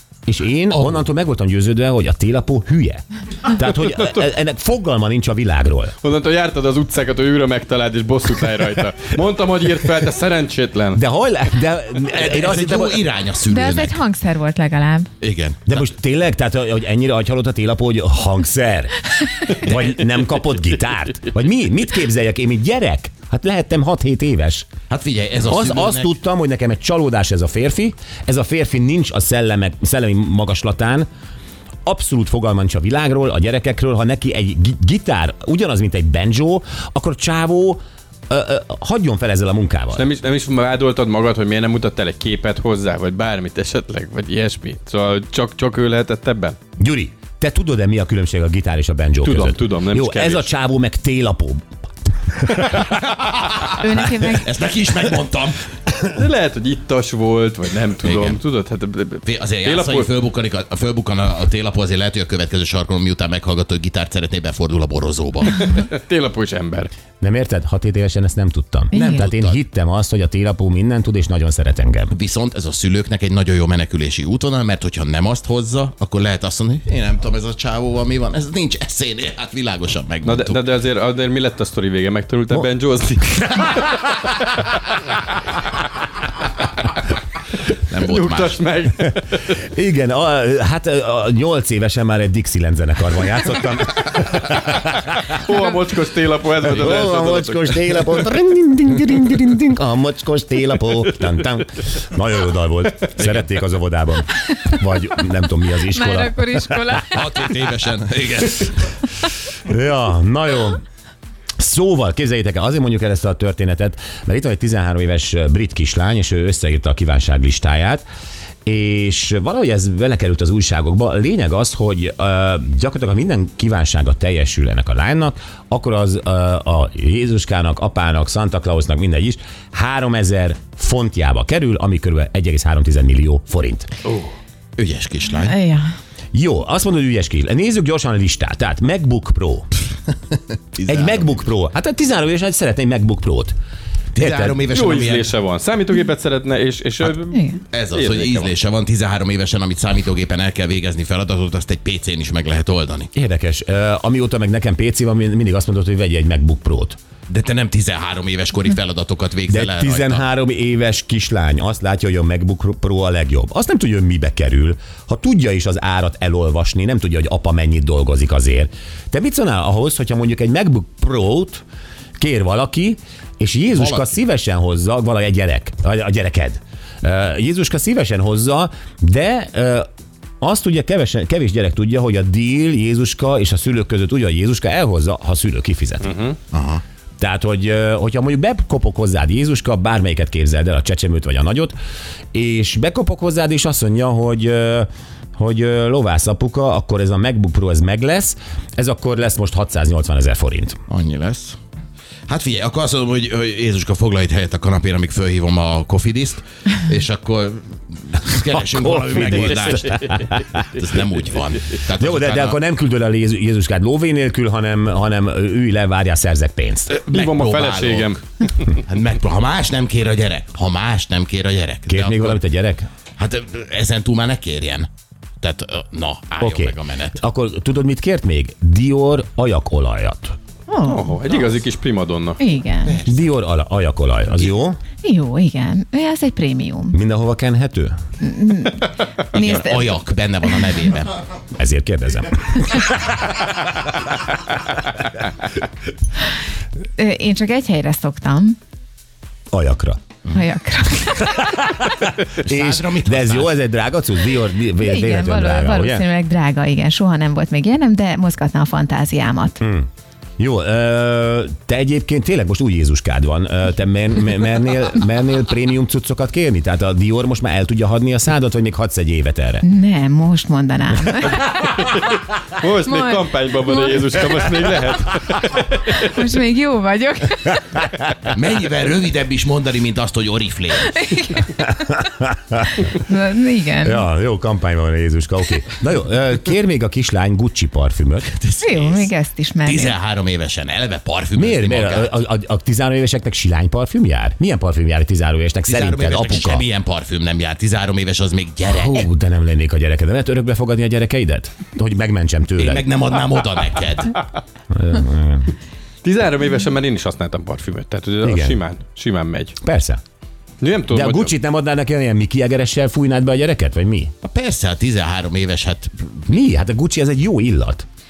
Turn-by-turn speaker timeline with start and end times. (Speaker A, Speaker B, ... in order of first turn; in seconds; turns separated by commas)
Speaker A: 0.2-6.0, Speaker B: 0.7-1.0, Speaker C: 6.0-11.0, Speaker A: 10.9-13.0, Speaker B: 12.1-14.0, Speaker D: 13.4-15.1, Speaker B: 15.2-15.8, Speaker A: 15.7-24.7, Speaker B: 24.9-26.1, Speaker A: 25.4-31.1, Speaker A: 31.8-40.1, Speaker C: 39.9-46.6, Speaker A: 46.8-51.6, Speaker C: 49.2-50.5, Speaker A: 52.4-52.6, Speaker B: 53.1-55.7, Speaker D: 53.7-54.5, Speaker C: 56.1-60.1, Speaker B: 58.0-58.4, Speaker B: 59.2-65.7, Speaker C: 65.5-66.9, Speaker A: 67.2-72.1, Speaker D: 68.9-69.2, Speaker B: 69.0-69.6, Speaker B: 72.1-80.7, Speaker C: 80.2-83.9, Speaker B: 87.9-88.6, Speaker C: 88.0-89.5, Speaker A: 89.6-94.9, Speaker C: 95.3-98.1, Speaker A: 96.6-107.0, Speaker D: 105.9-107.5, Speaker B: 107.1-109.0, Speaker A: 109.6-110.8, Speaker A: 111.6-118.0, Speaker A: 118.6-133.9, Speaker C: 134.1-134.3, Speaker B: 134.8-135.6, Speaker D: 135.4-135.9, Speaker A: 136.3-139.7, Speaker B: 140.7-141.4, Speaker A: 140.9-143.6, Speaker A: 144.1-144.6, Speaker B: 144.2-145.3, Speaker C: 144.7-148.5, Speaker D: 147.3-147.6, Speaker B: 147.7-153.1, Speaker A: 153.1-157.0, Speaker B: 157.3-160.2, Speaker A: 159.5-171.6, Speaker A: 172.2-179.9, Speaker B: 173.7-174.2, Speaker A: 180.4-186.2, Speaker C: 186.0-186.4, Speaker B: 186.5-186.8, Speaker A: 187.2-191.7, Speaker A: 192.3-200.8, Speaker B: 200.9-201.6, Speaker B: 202.3-212.6, Speaker A: 208.6-210.6, Speaker C: 209.2-209.9, Speaker A: 212.0-216.9, Speaker C: 216.9-218.6, Speaker B: 217.1-222.4, Speaker A: 221.9-222.9, Speaker B: 223.2-224.9, Speaker B: 225.4-227.2, Speaker A: 226.4-230.4, Speaker D: 230.7-231.3, Speaker C: 230.8-232.4, Speaker D: 232.4-232.9, Speaker B: 232.8-233.2, Speaker A: 233.1-234.8, Speaker D: 235.0-237.0, Speaker A: 236.9-237.9, Speaker D: 238.2-240.1, Speaker B: 239.3-241.2, Speaker A: 241.6-243.4, Speaker D: 247.0-248.6, Speaker A: 249.5-250.0, Speaker D: 250.3-251.6, Speaker A: 251.4-256.1, Speaker B: 252.4-253.6, Speaker D: 254.8-259.6, Speaker A: 259.6-259.9, Speaker A: 260.4-269.6, Speaker D: 269.6-271.5, Speaker C: 271.9-276.0, Speaker D: 272.9-274.0, Speaker D: 275.8-277.8, Speaker B: 278.3-281.1, Speaker D: 281.0-281.7, Speaker A: 282.2-282.6, Speaker D: 282.8-284.1, Speaker A: 283.8-288.3, Speaker B: 288.3-289.1, Speaker D: 288.6-290.0, Speaker B: 289.6-292.2, Speaker A: 291.4-296.6, Speaker B: 295.7-299.1, Speaker A: 298.7-302.9, Speaker B: 302.6-304.2, Speaker A: 304.7-305.5, Speaker C: 306.0-309.6, Speaker A: 308.2-308.6, Speaker A: 309.6-310.0, Speaker C: 310.6-311.4, Speaker A: 310.9-314.1, Speaker B: 314.2-316.2, Speaker A: 316.3-317.9